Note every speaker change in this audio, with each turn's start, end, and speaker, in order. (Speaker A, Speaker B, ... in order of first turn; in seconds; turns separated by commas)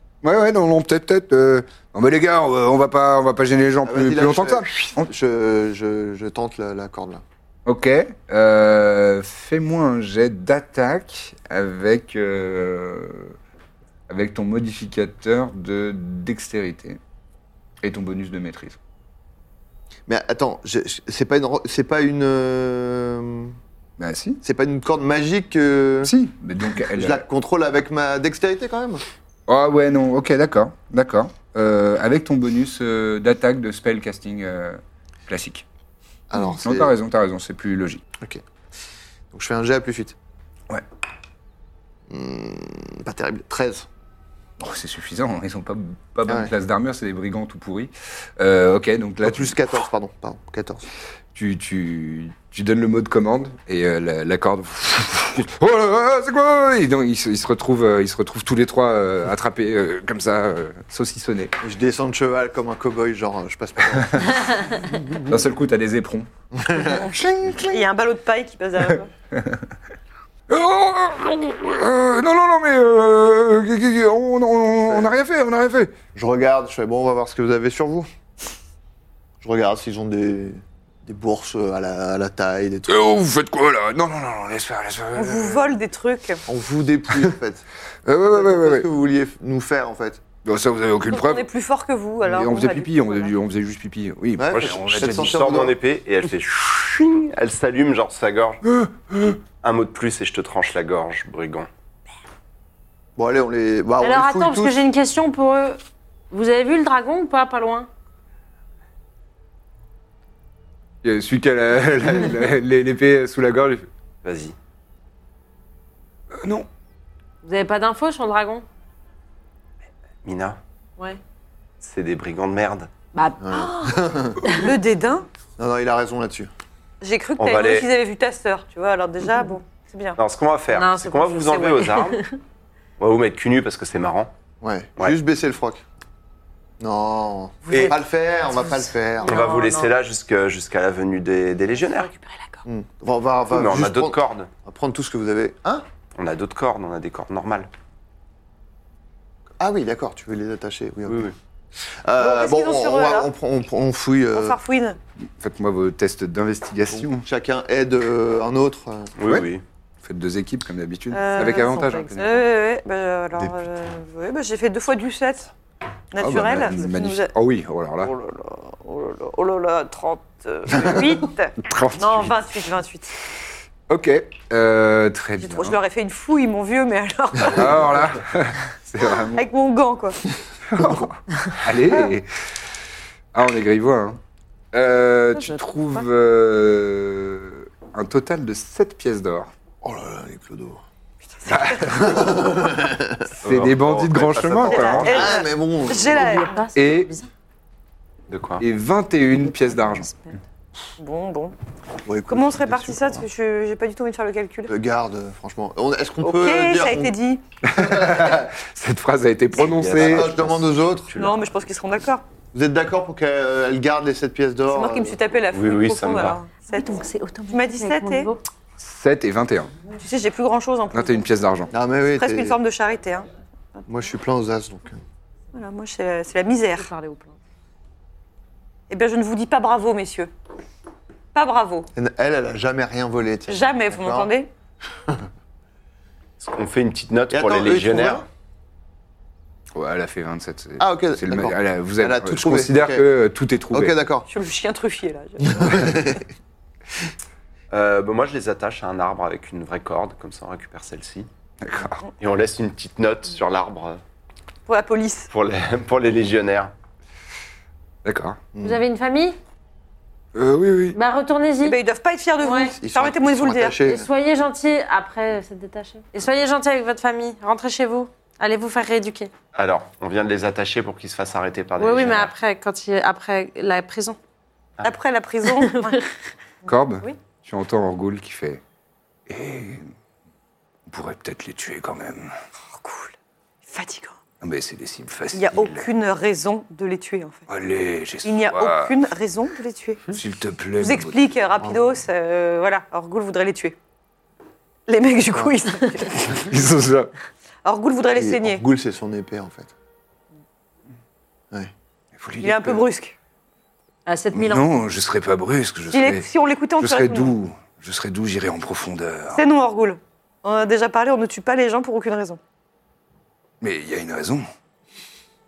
Speaker A: 0.2-5.1, Speaker B: 3.8-7.2, Speaker A: 7.7-13.3, Speaker A: 14.1-17.0, Speaker A: 17.8-18.8, Speaker B: 20.1-23.6, Speaker A: 24.0-24.4, Speaker B: 24.4-26.1, Speaker A: 26.0-27.2, Speaker B: 26.9-29.0, Speaker A: 29.5-35.6, Speaker B: 36.3-36.9, Speaker A: 36.4-38.0, Speaker B: 39.3-40.1, Speaker B: 42.1-43.9, Speaker A: 44.6-49.6, Speaker B: 46.3-46.5, Speaker B: 49.2-50.9, Speaker A: 51.3-61.5, Speaker B: 61.6-64.6, Speaker A: 63.9-66.3, Speaker B: 66.5-67.2, Speaker A: 66.9-67.8, Speaker C: 67.6-69.1, Speaker A: 68.9-69.7, Speaker A: 70.5-75.9, Speaker B: 76.1-78.1, Speaker B: 79.4-83.1, Speaker A: 82.9-85.7, Speaker C: 85.1-86.4, Speaker B: 86.5-87.7, Speaker A: 88.0-88.9, Speaker B: 88.3-90.2, Speaker A: 90.4-91.5, Speaker C: 91.0-93.4, Speaker A: 92.2-95.4, Speaker B: 94.4-95.7, Speaker D: 94.5-98.6, Speaker A: 98.7-99.4, Speaker D: 99.2-101.7, Speaker B: 103.2-104.8, Speaker E: 104.0-105.8, Speaker E: 106.3-107.9, Speaker A: 111.0-113.9, Speaker D: 114.2-114.5, Speaker A: 116.4-116.7, Speaker E: 117.4-118.6, Speaker D: 120.2-120.6, Speaker D: 121.8-122.9, Speaker E: 123.1-124.6, Speaker B: 123.4-124.5, Speaker C: 124.5-125.3, Speaker B: 125.6-126.5, Speaker C: 127.0-130.2, Speaker D: 127.4-127.9, Speaker D: 130.2-132.2, Speaker E: 130.7-132.2, Speaker D: 133.0-134.3, Speaker B: 134.6-135.8, Speaker B: 136.8-139.6, Speaker D: 137.7-137.9, Speaker E: 138.7-139.9, Speaker D: 139.2-142.1, Speaker B: 142.6-145.8, Speaker D: 143.5-144.5, Speaker D: 146.1-147.7, Speaker B: 149.6-154.6, Speaker D: 151.1-151.3, Speaker C: 152.2-153.3, Speaker C: 154.3-155.0, Speaker A: 155.4-157.2, Speaker B: 156.9-159.4, Speaker D: 159.2-159.6, Speaker A: 160.0-162.4, Speaker C: 161.1-165.5, Speaker C: 166.1-167.3, Speaker A: 166.2-168.1, Speaker C: 168.0-173.1, Speaker A: 171.6-172.4, Speaker A: 173.9-175.8, Speaker C: 175.4-178.1, Speaker A: 177.4-179.4, Speaker C: 179.2-180.2, Speaker A: 180.7-182.3, Speaker A: 183.3-184.2, Speaker A: 184.7-189.5, Speaker E: 185.3-186.0, Speaker B: 189.8-190.8, Speaker C: 191.3-192.2, Speaker A: 191.5-192.2, Speaker B: 191.9-193.3, Speaker A: 193.4-195.2, Speaker D: 193.4-195.3, Speaker C: 194.6-196.7, Speaker B: 195.1-196.4, Speaker E: 196.1-197.3, Speaker A: 196.7-197.1, Speaker D: 198.3-198.6, Speaker A: 198.6-200.1, Speaker C: 201.0-201.6, Speaker B: 202.0-203.2, Speaker C: 202.3-204.7, Speaker B: 204.7-207.1, Speaker C: 206.2-207.4, Speaker A: 207.6-210.4, Speaker B: 207.7-208.5, Speaker D: 209.5-211.7, Speaker B: 209.9-211.2, Speaker C: 211.1-212.2, Speaker B: 212.5-215.2, Speaker C: 214.7-218.3, Speaker D: 215.5-216.4, Speaker E: 216.7-218.4, Speaker A: 218.8-219.7, Speaker C: 220.0-221.3, Speaker A: 220.9-221.7, Speaker B: 221.7-222.6, Speaker C: 222.1-223.8, Speaker B: 223.9-225.0, Speaker C: 225.5-226.9, Speaker E: 226.8-227.4, Speaker C: 228.9-230.3, Speaker C: 231.3-231.9, Speaker B: 231.9-234.3, Speaker C: 233.5-234.5, Speaker D: 236.4-238.2, Speaker B: 237.3-238.2, Speaker A: 239.7-244.0, Speaker B: 240.8-243.1, Speaker B: 243.7-244.3, Speaker C: 244.3-245.9, Speaker B: 245.4-246.2, Speaker D: 247.7-251.3, Speaker A: 251.6-252.0, Speaker D: 252.2-254.0, Speaker C: 254.7-255.3, Speaker D: 255.3-256.7, Speaker A: 258.0-258.4, Speaker B: 258.5-258.8, Speaker E: 258.6-259.4, Speaker A: 260.3-261.0, Speaker E: 260.9-261.8, Speaker C: 261.6-263.8, Speaker E: 262.4-262.7, Speaker B: 262.8-264.1, Speaker E: 263.8-269.3, Speaker D: 269.5-272.3, Speaker E: 271.8-274.2, Speaker C: 274.8-276.0, Speaker E: 275.5-276.0, Speaker A: 276.7-278.6, Speaker A: 279.3-279.9, Speaker A: 280.9-282.3, Speaker C: 282.7-283.1, Speaker C: 283.6-284.2, Speaker A: 284.4-285.9, Speaker C: 285.3-287.5, Speaker A: 287.5-288.9, Speaker C: 288.2-290.2, Speaker A: 290.1-291.2, Speaker C: 290.8-293.8, Speaker C: 294.9-296.4, Speaker A: 296.2-297.1, Speaker C: 297.6-298.6, Speaker B: 298.1-299.7, Speaker A: 302.2-302.8, Speaker C: 302.4-303.1, Speaker E: 304.1-304.7, Speaker A: 304.3-309.4, Speaker C: 305.9-307.4, Speaker C: 309.3-312.4, Speaker A: 313.6-314.4